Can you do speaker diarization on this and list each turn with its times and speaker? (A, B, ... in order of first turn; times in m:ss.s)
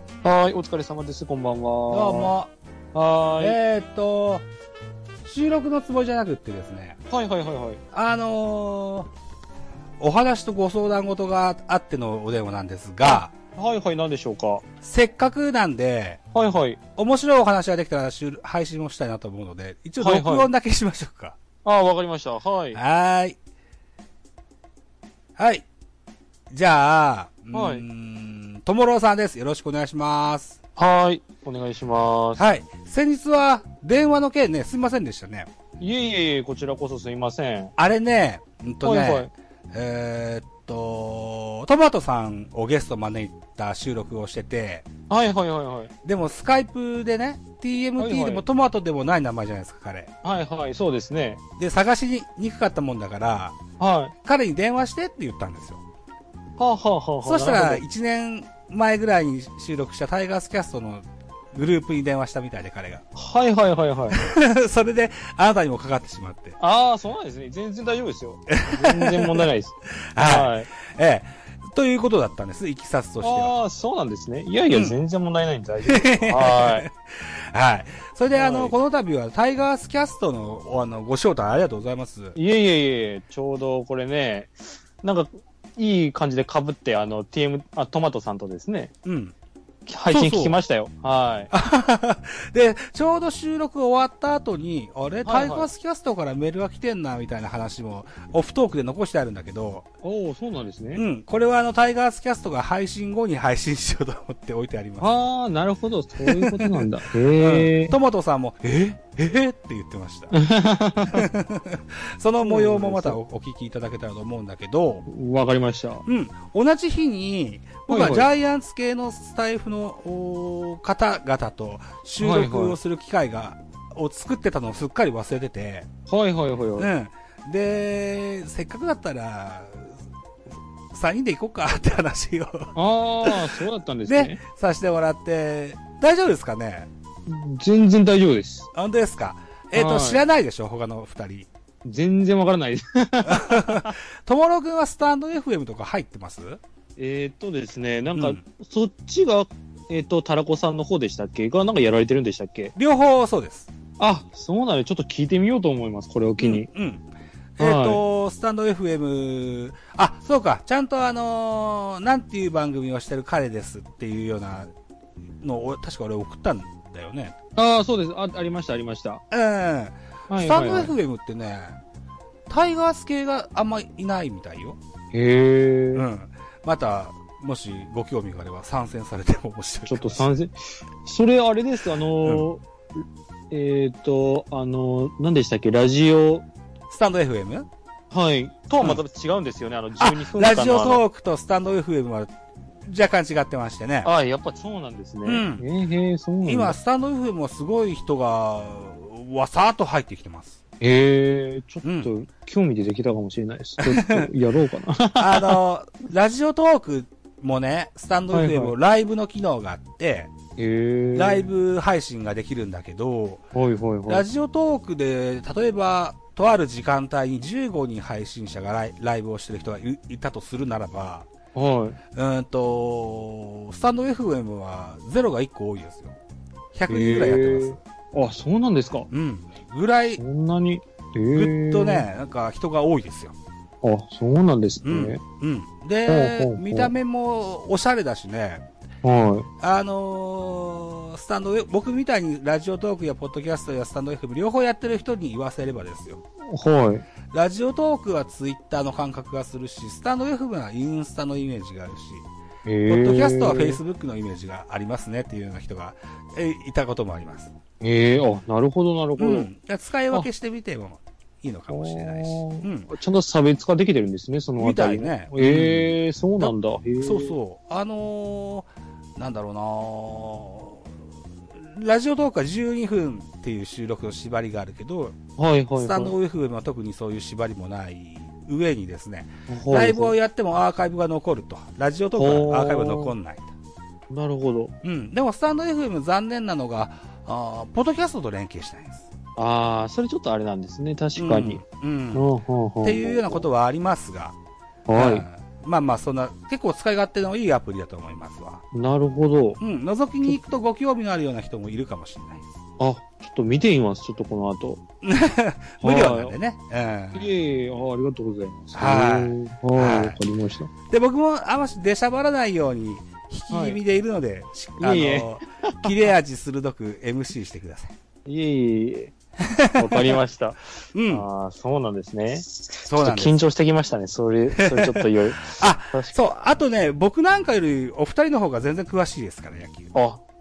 0:00.2-0:02.3 A
0:01.9-0:02.5 B
0:02.9-0:03.6 A
0:03.4-0:04.4 B
0:05.2-0:07.0 B
0:07.1-0:07.8 A
0:07.9-0:09.1 B
0:10.0-0:13.3 B
0:13.5-0:14.6 A
0:14.8-0:16.2 B
0:16.3-0:16.8 A
0:17.0-0:21.4 B
0:20.0-0:20.5 A
0:21.6-0:22.8 A
0:22.7-0:23.4 B
0:25.4-0:25.6 B
0:26.5-0:30.6 B
0:27.5-0:27.8 A
0:30.8-0:32.4 A
0:32.4-0:35.5 B
0:35.8-0:37.7 A
0:37.8-0:44.8 B
0:38.8-0:39.3 A
0:45.1-0:45.9 A
0:46.0-0:50.1 B
0:48.0-0:48.4 A
0:50.2-0:51.4 A
0:51.6-0:53.6 B
0:53.8-0:54.1 A
0:54.2-0:55.8 B
0:56.6-0:57.8 A
0:57.2-1:03.0 B
1:03.1-1:04.2 A
1:04.1-1:06.6 B
1:06.6-1:10.7 A
1:08.5-1:09.4 B
1:10.1-1:13.5 B
1:13.2-1:16.9 A
1:14.7-1:15.0 B
1:15.8-1:22.4 B
1:18.3-1:18.8 A
1:22.3-1:28.9 A
1:29.0-1:29.3 B
1:29.9-1:31.5 A
1:30.1-1:30.6 B
1:31.5-1:39.8 B
1:35.2-1:35.7 A
1:40.0-1:41.0 A
1:40.9-1:45.1 B
1:45.0-1:47.9 A
1:46.2-1:50.3 B
1:50.3-1:51.3 A
1:51.1-1:55.0 B
1:52.4-1:53.2 A
1:55.1-1:56.0 A
1:56.0-2:05.9 B
1:57.9-1:58.3 A
2:02.2-2:02.8 A
2:06.1-2:06.9 A
2:06.8-2:09.9 B
2:10.9-2:12.7 B
2:12.8-2:14.4 A
2:13.2-2:16.9 B
2:17.2-2:18.7 A
2:18.7-2:21.5 B
2:19.7-2:20.2 A
2:21.8-2:23.9 A
2:23.3-2:26.6 B
2:27.0-2:32.7 A
2:28.1-2:28.4 B
2:32.8-2:33.7 B
2:34.0-2:36.7 A
2:36.4-2:44.7 B
2:37.6-2:38.0 A
2:45.4-2:47.3 B
2:47.6-2:49.2 A
2:49.3-2:51.8 B
2:50.3-2:50.9 A
2:52.5-2:54.8 B
2:55.1-2:56.0 A
2:55.9-3:00.2 B
2:59.9-3:02.6 A
3:02.2-3:02.5 B
3:03.5-3:06.4 A
3:06.9-3:07.7 B
3:08.1-3:11.0 A
3:10.0-3:14.1 B
3:14.0-3:16.8 A
3:15.2-3:15.6 B
3:16.4-3:20.6 B
3:20.8-3:25.6 A
3:21.8-3:22.1 B
3:23.8-3:24.3 B
3:25.2-3:30.3 B
3:28.3-3:28.7 A
3:30.6-3:31.5 A
3:31.1-3:33.4 B
3:33.5-3:34.2 A
3:34.1-3:41.3 B
3:41.5-3:42.0 A
3:42.1-3:46.2 B
3:46.7-3:47.8 B
3:46.9-3:49.1 A
3:49.1-3:50.2 B
3:50.1-3:52.1 A
3:51.3-3:53.4 B
3:53.8-3:55.2 A
3:54.8-3:58.6 B
3:56.0-3:56.9 A
3:59.0-3:59.5 A
3:59.6-4:06.2 B
4:06.5-4:07.1 A
4:07.3-4:12.3 B
4:12.6-4:13.8 A
4:12.9-4:17.5 B
4:17.8-4:19.5 A
4:19.2-4:22.9 B
4:21.7-4:27.4 A
4:24.6-4:30.9 B
4:31.5-4:35.2 B
4:35.4-4:36.1 A
4:35.8-4:43.5 B
4:39.5-4:40.2 A
4:42.2-4:43.1 A
4:44.1-4:44.7 A
4:44.8-4:49.1 B
4:49.4-4:53.4 A
4:51.2-4:52.3 B
4:52.8-4:54.4 B
4:54.9-4:55.2 A
4:54.9-4:58.6 B
4:58.7-4:59.6 A
4:59.6-5:02.5 B
5:02.8-5:04.8 A
5:05.0-5:07.3 B
5:05.8-5:06.3 A
5:07.1-5:10.7 A
5:08.7-5:10.2 B
5:10.9-5:17.9 B
5:13.5-5:13.8 A
5:14.8-5:15.9 A
5:18.2-5:19.1 A
5:19.4-5:20.2 B
5:19.7-5:26.2 A
5:20.9-5:21.2 B
5:22.8-5:23.4 B
5:24.6-5:29.9 B
5:29.9-5:30.2 A